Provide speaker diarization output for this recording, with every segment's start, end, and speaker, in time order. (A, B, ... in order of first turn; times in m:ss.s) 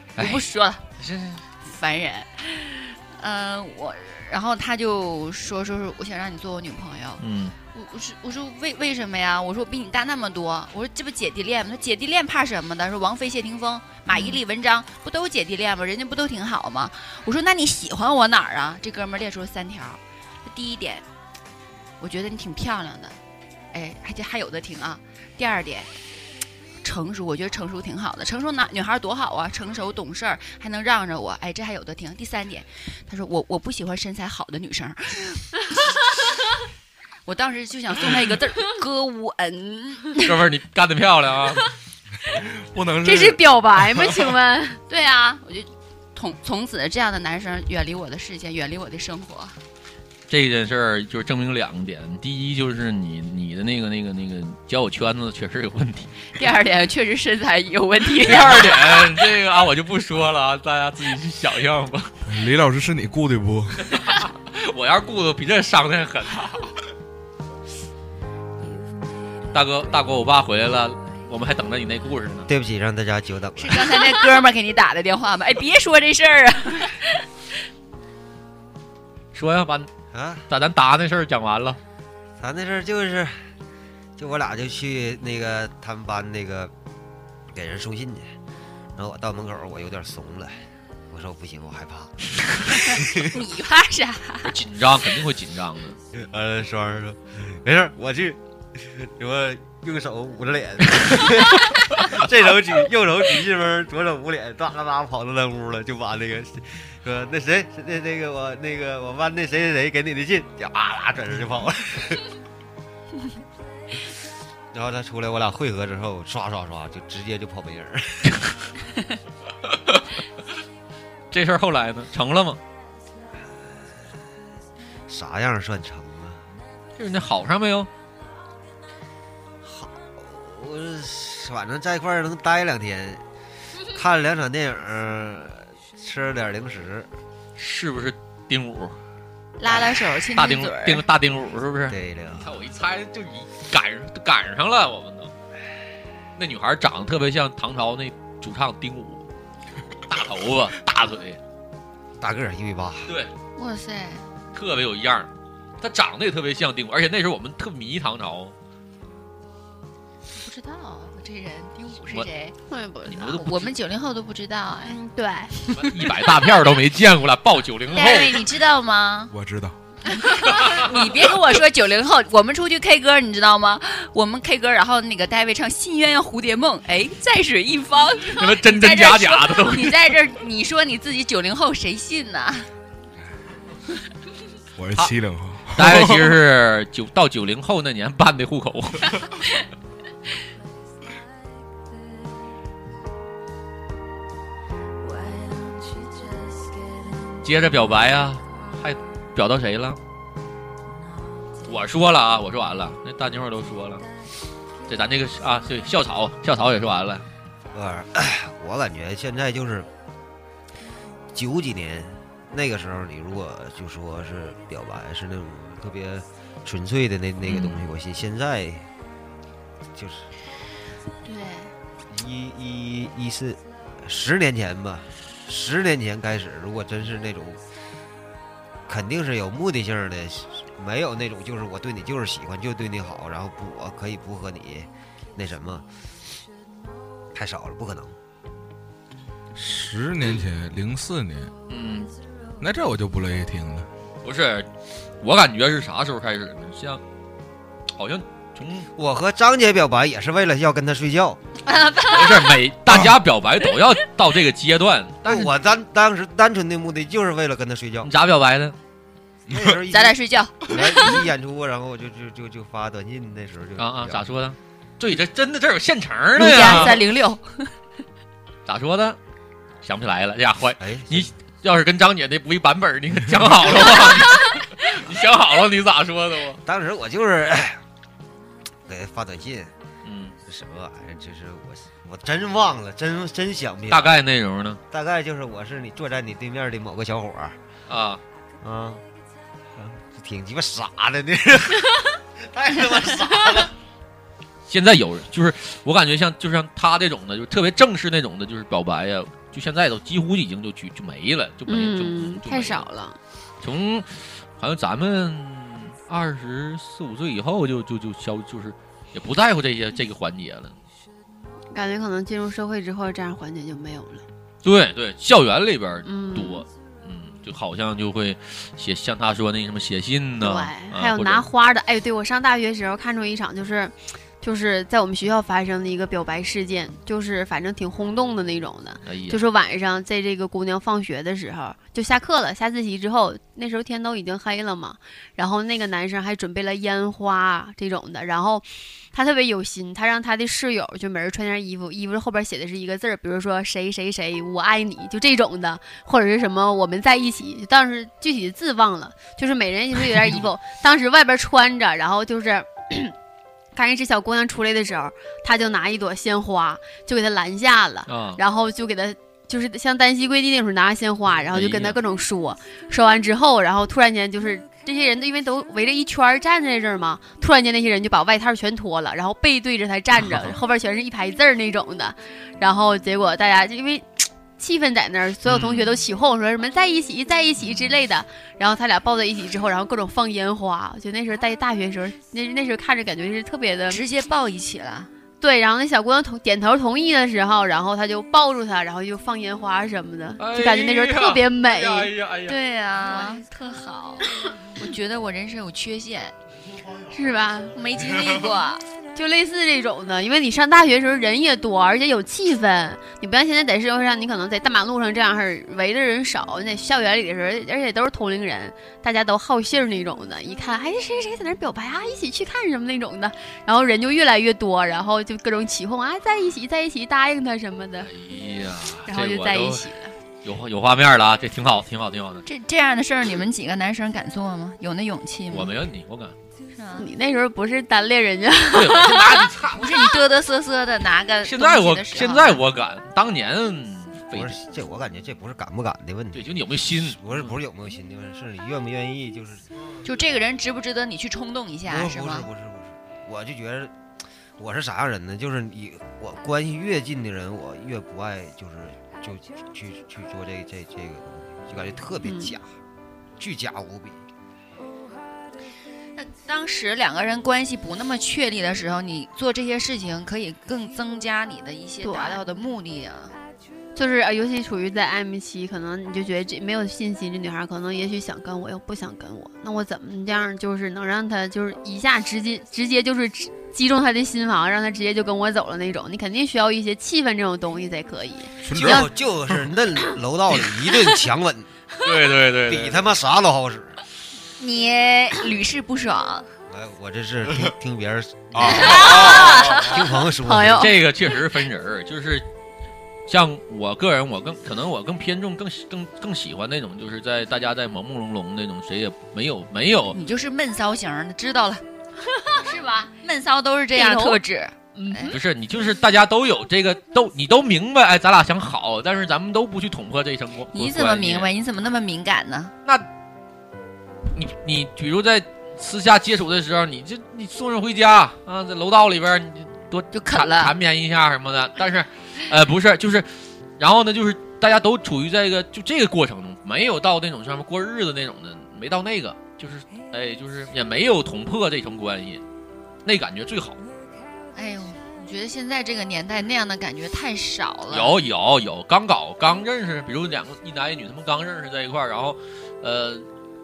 0:00.2-0:01.4 A
0:00.2-0:00.8 B
0:01.6-0:07.2 B
0:07.2-0:07.6 A
0:07.7-0:21.0 B
0:14.1-0:14.4 A
0:22.0-0:23.2 B
0:23.7-0:25.9 B
0:26.8-0:36.0 B
0:37.2-0:40.3 B
0:40.2-0:41.6 A
0:42.3-0:44.2 C
0:43.0-0:44.8 D
0:44.9-0:49.6 B
0:50.3-0:56.1 A
0:56.3-0:59.2 B
0:58.2-1:02.1 A
1:02.2-1:03.9 C
1:03.8-1:06.7 A
1:09.5-1:12.5 A
1:12.5-1:14.0 E
1:13.6-1:17.2 B
1:19.3-1:19.9 A
1:20.1-1:20.4 E
1:20.5-1:21.8 A
1:22.4-1:23.5 E
1:24.2-1:26.7 E
1:27.5-1:28.3 E
1:29.0-1:32.1 E
1:32.7-1:33.3 E
1:33.0-1:34.5 B
1:34.4-1:36.0 A
1:36.1-1:52.3 E
1:54.7-1:58.4 E
1:59.7-2:00.1 A
2:01.3-2:02.6 A
2:03.5-2:04.1 E
2:05.1-2:06.4 E
2:07.0-2:07.9 A
2:09.6-2:13.2 E
2:13.8-2:17.1 E
2:17.6-2:19.0 A
2:19.6-2:21.0 B
2:19.7-2:25.3 A
2:21.9-2:22.5 E
2:26.4-2:29.2 A
2:30.1-2:31.4 A
2:32.2-2:33.1 E
2:33.6-2:34.3 B
2:34.5-2:35.3 A
2:35.8-2:38.5 A
2:40.3-2:42.6 B
2:42.7-2:43.4 D
2:43.0-2:43.7 A
2:43.3-2:45.0 B
2:44.8-2:45.6 D
2:45.7-2:48.5 A
2:47.9-2:49.3 B
2:49.3-2:49.8 C
2:50.0-3:02.7 B
2:50.5-2:51.0 A
2:58.3-3:00.2 A
3:04.8-3:06.3 C
3:05.7-3:09.2 A
3:17.4-3:20.0 A
3:21.6-3:24.0 A
3:24.9-3:27.2 A
3:27.7-3:29.9 E
3:31.3-3:38.9 E
3:37.4-3:37.8 A
3:39.9-3:40.3 E
3:41.2-3:41.7 B
3:42.1-3:47.6 E
3:48.9-3:55.9 E
3:57.3-3:58.2 E
3:59.5-4:01.5 C
4:01.7-4:02.1 A
4:02.6-4:03.9 C
4:04.2-4:04.7 A
4:05.2-4:07.0 A
4:08.0-4:08.9 A
4:08.9-4:11.4 E
4:11.6-4:12.6 B
4:12.1-4:15.5 A
4:15.2-4:18.1 E
4:18.0-4:18.8 A
4:19.5-4:24.3 E
4:19.9-4:21.2 B
4:23.8-4:27.0 A
4:26.3-4:27.7 B
4:28.6-4:29.2 A
4:29.8-4:36.6 A
4:30.8-4:31.3 E
4:34.2-4:34.5 B
4:36.6-4:37.8 E
4:38.9-4:39.7 E
4:40.0-4:40.4 A
4:40.4-4:44.1 E
4:43.9-4:44.8 A
4:44.9-4:47.6 E
4:47.9-4:48.2 A
4:48.6-4:49.0 E
4:49.7-4:53.7 E
4:54.7-5:02.8 A
5:01.7-5:03.2 D
5:03.6-5:10.8 A
5:11.7-5:14.2 D
5:14.6-5:21.5 A
5:16.0-5:16.6 D
5:20.4-5:53.1 D
5:29.0-5:29.4 A
5:53.7-6:14.1 D
5:58.1-5:58.4 A
6:01.5-6:02.0 A
6:14.6-6:24.0 D
6:15.4-6:16.0 A
6:23.9-6:25.1 B
6:25.4-6:32.1 D
6:30.4-6:32.6 A
6:32.5-6:36.3 B
6:33.1-6:33.4 D
6:37.1-6:37.7 D
6:37.7-6:38.8 B
6:39.1-6:58.1 D
6:58.0-6:59.8 A
6:59.1-7:00.1 D
7:00.4-7:02.4 A
7:02.5-7:05.7 B
7:05.5-7:06.3 A
7:06.7-7:07.1 B
7:07.0-7:09.4 D
7:08.7-7:10.2 A
7:09.7-7:12.6 B
7:11.4-7:14.6 A
7:14.3-7:19.7 E
7:16.3-7:17.5 A
7:20.0-7:22.5 B
7:21.8-7:24.0 E
7:24.6-7:32.8 E
7:32.2-7:32.5 D
7:33.4-7:34.2 E
7:36.2-7:43.3 B
7:42.0-7:42.4 D
7:44.0-7:59.0 D
7:58.6-7:59.1 C
7:58.7-8:01.7 E
8:02.0-8:03.0 A
8:02.6-8:04.0 E
8:04.6-8:06.4 B
8:06.7-8:10.9 E
8:08.5-8:09.1 C
8:08.6-8:10.0 B
8:09.1-8:09.7 A
8:10.4-8:10.9 D
8:10.8-8:12.4 A
8:13.3-8:20.2 A
8:20.1-8:21.8 B
8:22.4-8:22.6 D
8:22.6-8:25.3 B
8:23.9-8:24.4 D
8:24.9-8:25.4 D
8:25.3-8:31.5 A
8:30.7-8:32.7 B
8:34.3-8:52.4 A
8:40.1-8:40.7 B
8:53.0-8:53.8 A
8:54.5-8:58.2 B
8:57.9-9:03.3 A